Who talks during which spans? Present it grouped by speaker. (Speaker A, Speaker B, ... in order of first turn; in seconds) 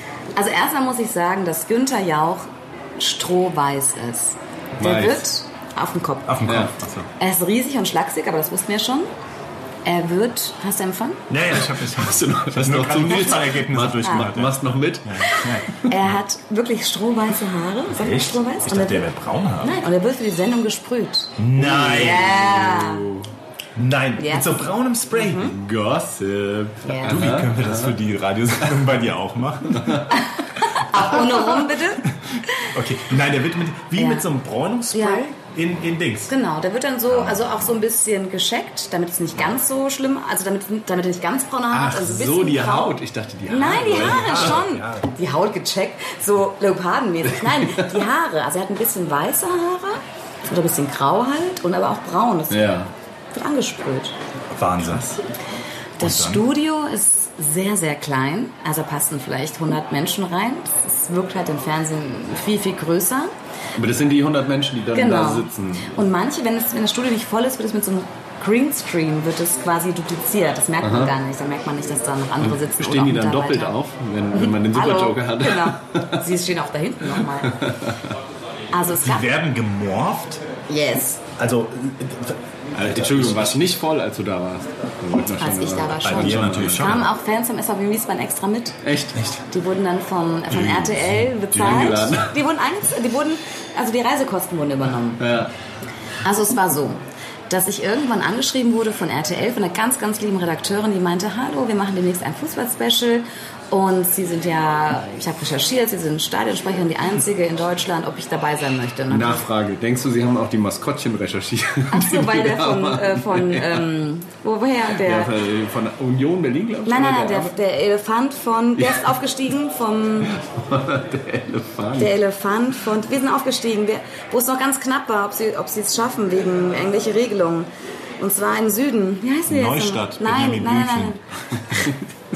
Speaker A: 0.4-6.4, 7.2-9.1, 9.8-11.3, 15.3-19.1, 19.6-23.1, 24.2-25.6, 26.9-27.2, 30.1-32.7, 34.0-34.3, 34.9-35.3, 36.3-52.8, 53.3-54.2, 56.0-63.3, 64.9-73.8, 74.3-77.7, 78.7-79.3, 80.7-81.2, 85.4-88.8, 89.5-95.2, 96.2-109.4, 111.9-115.3, 116.9-120.3, 122.0-131.2
Speaker B: 4.8-5.2, 6.5-6.7, 11.6-15.3, 21.6-23.3, 25.5-28.0, 29.7-30.1, 41.7-44.7, 47.4-47.9, 52.5-52.9, 63.8-66.0, 70.8-71.1, 72.4-76.3, 77.4-78.0, 82.8-87.0, 88.8-89.2, 91.5-92.4, 95.2-95.5, 109.1-113.8, 114.9-117.5, 118.8-119.1, 120.3-122.1
Speaker C: 6.3-7.1, 11.3-16.1, 17.9-19.9, 21.4-22.4, 23.8-25.6, 27.1-30.1, 32.1-36.3, 37.1-37.8, 43.7-45.1, 54.5-55.2, 56.0-56.5, 79.0-80.4, 81.4-83.7, 86.0-87.1, 89.2-89.4, 90.5-91.1, 129.5-131.2